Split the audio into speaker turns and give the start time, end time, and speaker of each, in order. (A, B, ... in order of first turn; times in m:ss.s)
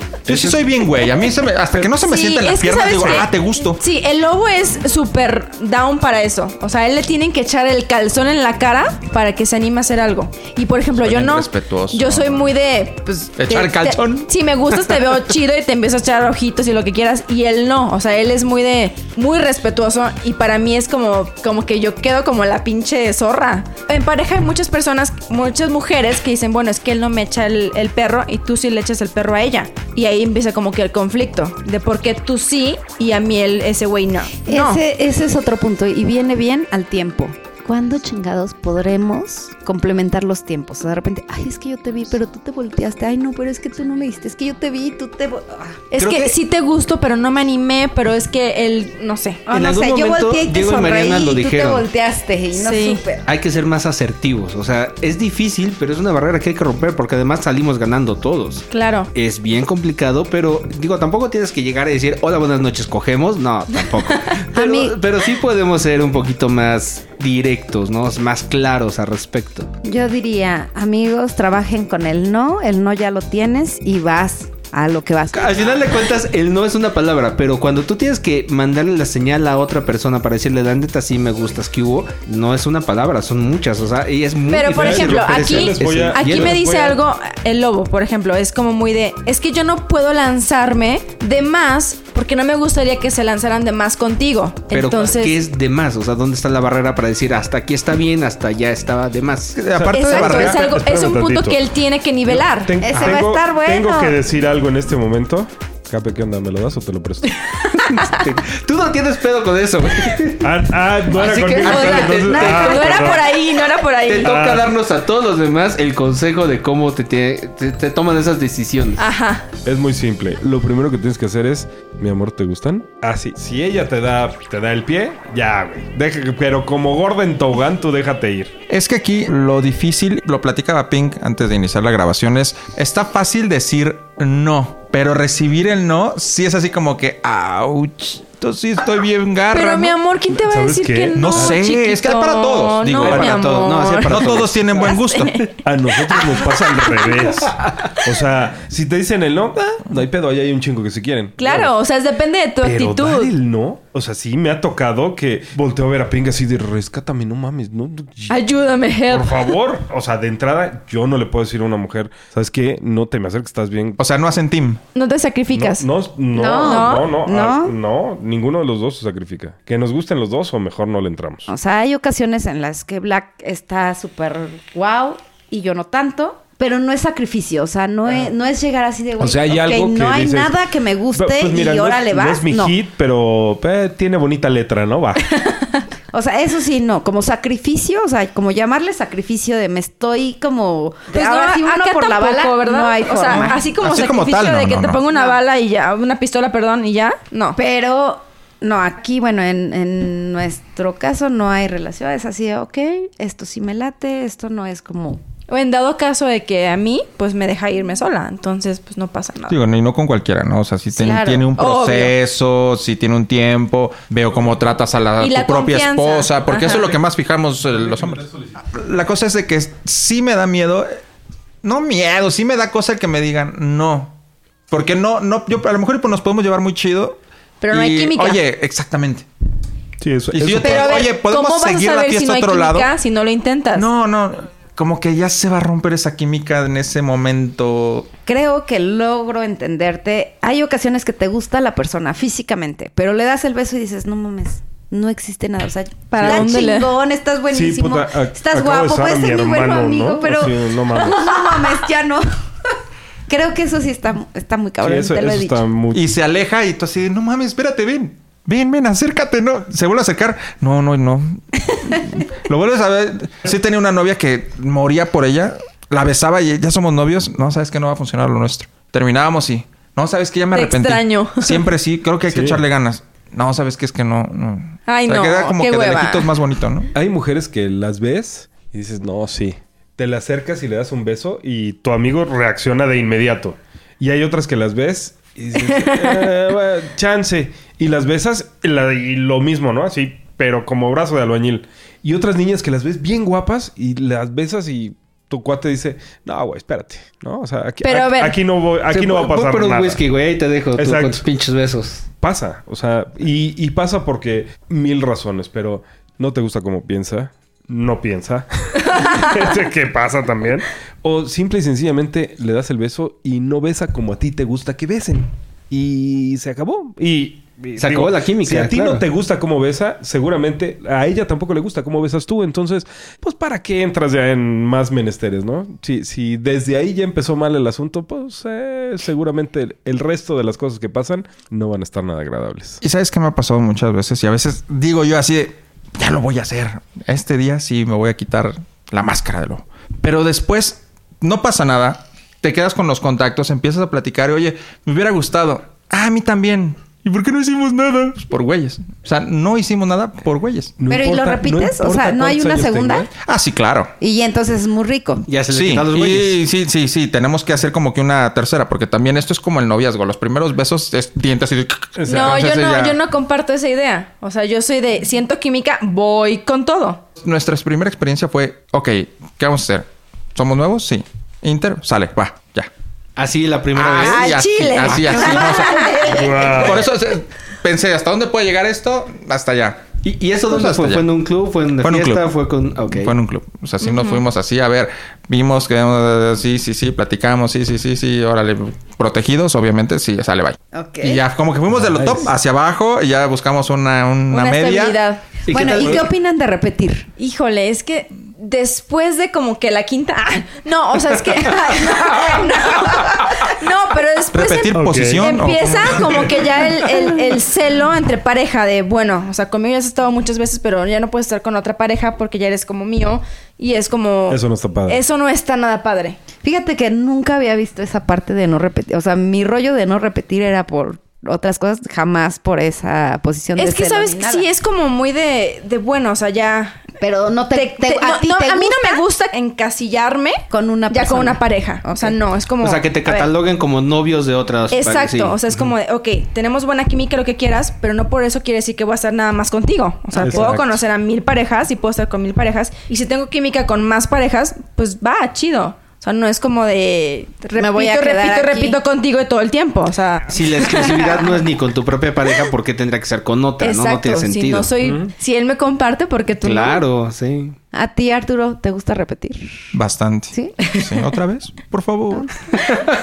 0:00.2-0:03.8 A
0:00.3-0:00.6 B
0:01.9-0:34.8 C
0:11.0-0:12.5 A
0:13.4-0:14.3 A
0:34.4-0:45.9 D
0:45.9-0:49.4 C
0:46.0-0:46.3 E
0:49.5-0:53.2 D
0:49.5-0:51.9 E
0:52.5-0:53.0 C
0:53.2-1:09.7 E
0:58.7-0:59.1 C
1:04.5-1:05.0 D
1:09.8-1:15.7 D
1:15.3-1:26.6 E
1:24.5-1:35.4 C
1:24.7-1:27.0 B
1:34.7-1:39.6 E
1:39.6-1:40.6 A
1:39.7-1:41.6 B
1:39.9-1:42.8 C
1:42.3-1:47.6 B
1:42.8-1:44.2 D
1:47.8-1:50.5 E
1:47.8-1:48.1 C
1:50.4-1:53.3 B
1:51.1-1:53.2 E
1:51.5-1:54.3 C
1:54.1-1:59.0 E
1:54.2-1:54.7 B
1:59.0-1:59.5 C
1:59.6-2:08.6 B
2:08.7-2:20.0 A
2:19.5-2:27.2 C
2:20.4-2:21.6 B
2:21.1-2:23.4 A
2:23.0-2:24.9 E
2:24.0-2:25.4 A
2:25.6-2:31.8 B
2:31.4-2:33.3 C
2:32.6-2:38.4 B
2:38.3-2:39.6 C
2:39.1-2:44.0 B
2:44.0-2:44.8 A
2:44.9-2:45.8 C
2:45.5-2:51.5 B
2:46.3-2:47.7 D
2:46.6-2:47.1 C
2:51.5-3:02.8 D
2:59.2-3:05.2 B
3:06.1-3:13.6 D
3:11.1-3:17.6 C
3:13.7-3:15.0 A
3:17.6-3:25.2 D
3:25.5-3:29.6 C
3:29.5-3:41.0 A
3:30.9-3:31.5 D
3:31.6-3:32.1 C
3:35.2-3:36.9 C
3:38.1-3:38.4 B
3:41.6-3:44.2 A
3:44.7-3:49.2 A
3:47.6-3:48.4 C
3:50.0-3:51.0 B
3:50.3-3:52.9 A
3:50.5-3:53.9 C
3:53.7-3:58.1 A
3:58.2-4:12.3 D
4:06.1-4:06.9 C
4:06.2-4:06.6 B
4:07.5-4:11.4 B
4:13.3-4:15.6 D
4:14.8-4:16.0 B
4:15.9-4:36.9 A
4:30.5-4:31.6 C
4:32.3-4:32.6 B
4:34.9-4:36.3 C
4:36.9-5:00.0 B
4:45.6-4:46.3 C
4:57.8-4:58.4 C
4:58.9-5:02.0 E
5:00.8-5:01.2 B
5:02.2-5:32.8 B
5:17.8-5:19.0 E
5:32.8-5:50.8 A
5:50.8-5:53.1 B
5:50.9-5:53.1 D
5:53.2-5:53.9 A
5:54.0-5:55.2 D
5:55.3-5:56.4 E
5:55.5-6:03.0 A
6:02.0-6:02.4 B
6:02.1-6:07.0 C
6:07.2-6:12.7 A
6:13.2-6:15.0 E
6:13.7-6:19.8 A
6:13.9-6:16.7 C
6:16.1-6:16.8 B
6:20.0-6:23.1 E
6:20.5-6:21.1 A
6:21.8-6:22.3 A
6:22.8-6:35.0 A
6:23.8-6:24.2 C
6:30.7-6:31.2 D
6:31.7-6:32.3 B
6:34.3-6:35.4 C
6:35.4-6:36.1 E
6:35.5-6:37.1 D
6:37.2-6:56.2 C
6:44.3-6:46.2 A
6:44.7-6:46.4 B
6:54.3-6:55.0 B
6:56.4-7:04.5 D
7:03.6-7:06.8 C
7:07.0-7:09.0 D
7:07.5-7:13.3 C
7:10.5-7:12.1 D
7:12.6-7:15.4 E
7:14.7-7:31.4 C
7:20.2-7:20.8 B
7:20.2-7:20.5 E
7:27.5-7:28.8 D
7:30.3-7:34.7 E
7:33.6-7:36.8 C
7:34.8-7:35.1 B
7:36.4-7:37.6 E
7:37.7-7:39.6 D
7:39.7-7:42.3 A
7:40.3-7:40.9 D